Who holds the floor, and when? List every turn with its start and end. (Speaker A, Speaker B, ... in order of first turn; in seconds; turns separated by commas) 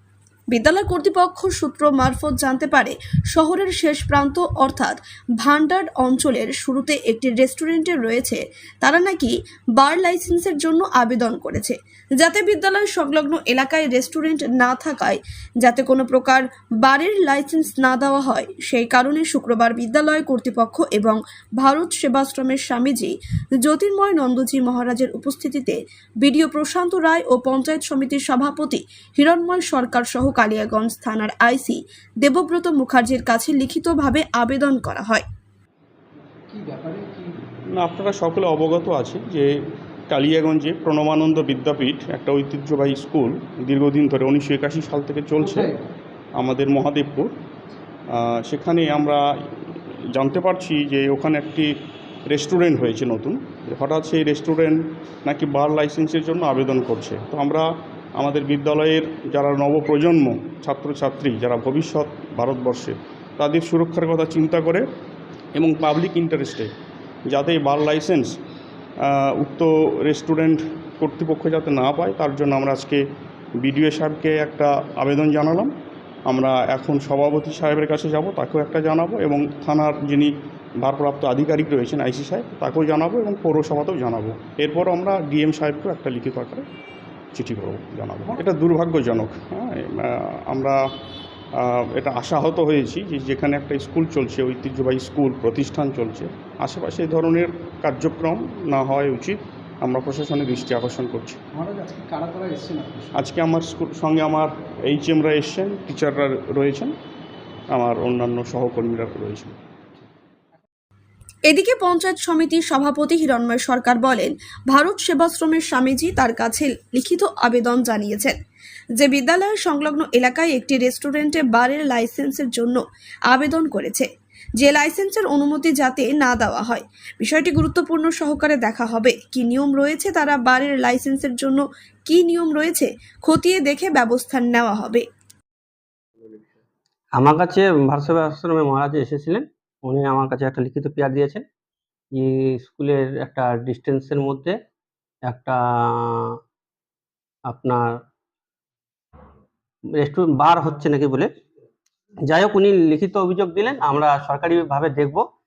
Speaker A: 0.5-35.2, Speaker B: 36.4-37.4, Speaker C: 37.7-39.5, Speaker C: 40.1-45.7, Speaker B: 45.4-45.9, Speaker C: 46.4-47.3, Speaker C: 48.1-51.7, Speaker C: 52.2-64.8, Speaker C: 65.5-66.7, Speaker C: 67.3-68.3, Speaker C: 69.0-73.0, Speaker C: 73.6-75.7, Speaker C: 76.3-86.7, Speaker C: 87.3-90.8, Speaker C: 91.5-101.4, Speaker B: 101.5-103.2, Speaker C: 103.1-106.9, Speaker C: 107.7-109.6, Speaker A: 111.5-118.3, Speaker A: 119.0-135.0, Speaker D: 137.2-141.4, Speaker D: 142.2-144.5, Speaker D: 145.2-146.3, Speaker D: 147.5-147.8, Speaker D: 150.0-151.3, Speaker D: 152.2-155.2